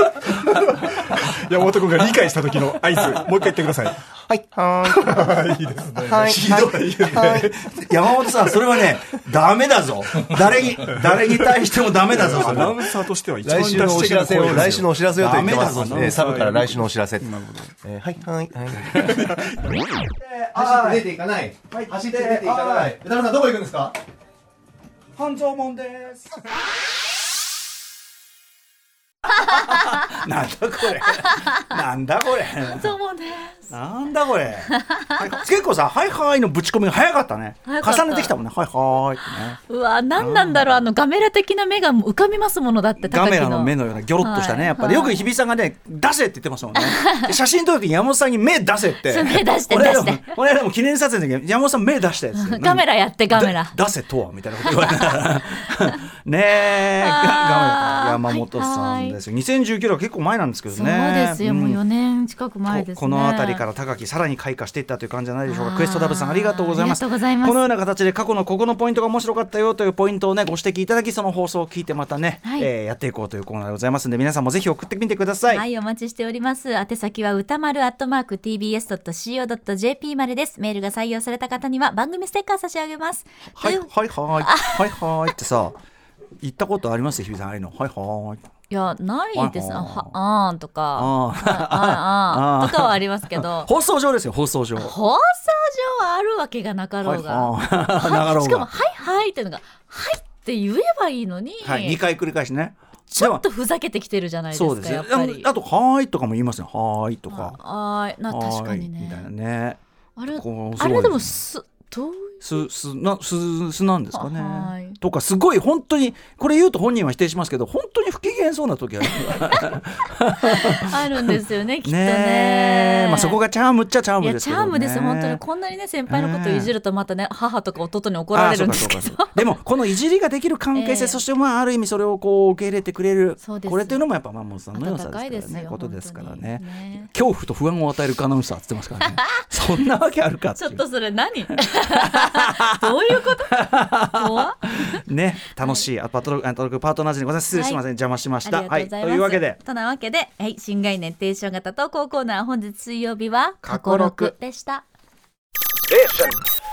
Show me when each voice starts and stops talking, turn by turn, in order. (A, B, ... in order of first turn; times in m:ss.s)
0:00.4-0:04.0 A
0:04.3-0:05.4 B
0:04.8-0:07.7 A
0:06.0-0:07.6 B
0:06.3-0:13.0 C
0:12.1-0:12.8 B
0:12.1-0:14.9 A
0:13.4-0:19.4 B
0:15.2-0:16.4 C
0:16.0-0:16.9 A
0:17.4-0:17.7 A
0:19.0-0:19.4 C
0:20.1-0:21.0 C
0:20.6-0:23.9 B
0:21.7-0:23.0 C
0:25.2-0:26.3 C
0:29.3-0:32.9 C
0:32.6-0:33.7 D
0:33.7-0:39.6 C
0:37.7-0:38.3 D
0:39.6-0:45.2 D
0:40.2-0:40.8 C
0:43.0-1:01.8 C
0:46.8-0:47.2 D
0:49.1-0:50.3 D
0:52.3-0:53.8 D
0:54.7-0:55.2 D
0:57.0-0:59.2 D
1:00.7-1:03.6 D
1:02.7-1:15.6 C
1:05.5-1:07.6 D
1:12.4-1:12.7 D
1:15.5-1:24.8 D
1:23.6-1:25.8 C
1:26.4-1:28.4 C
1:28.7-1:33.7 D
1:29.3-1:30.2 C
1:31.0-1:34.9 C
1:34.8-1:42.0 D
1:37.0-1:38.7 C
1:41.6-1:43.4 C
1:43.1-1:45.5 D
1:44.5-1:47.6 C
1:47.3-1:49.3 D
1:48.3-1:49.8 C
1:50.2-1:52.6 D
1:50.4-1:51.4 C
1:52.4-2:05.4 C
1:54.1-1:55.0 D
2:00.4-2:03.4 D
2:04.2-2:09.4 D
2:06.1-2:06.7 C
2:08.3-2:20.8 C
2:10.7-2:11.2 D
2:13.4-2:14.0 D
2:14.7-2:17.1 D
2:20.6-2:25.0 D
2:22.8-2:29.6 C
2:25.6-2:25.9 D
2:27.5-2:27.8 D
2:28.4-2:34.8 D
2:33.6-2:34.3 C
2:35.9-2:36.4 C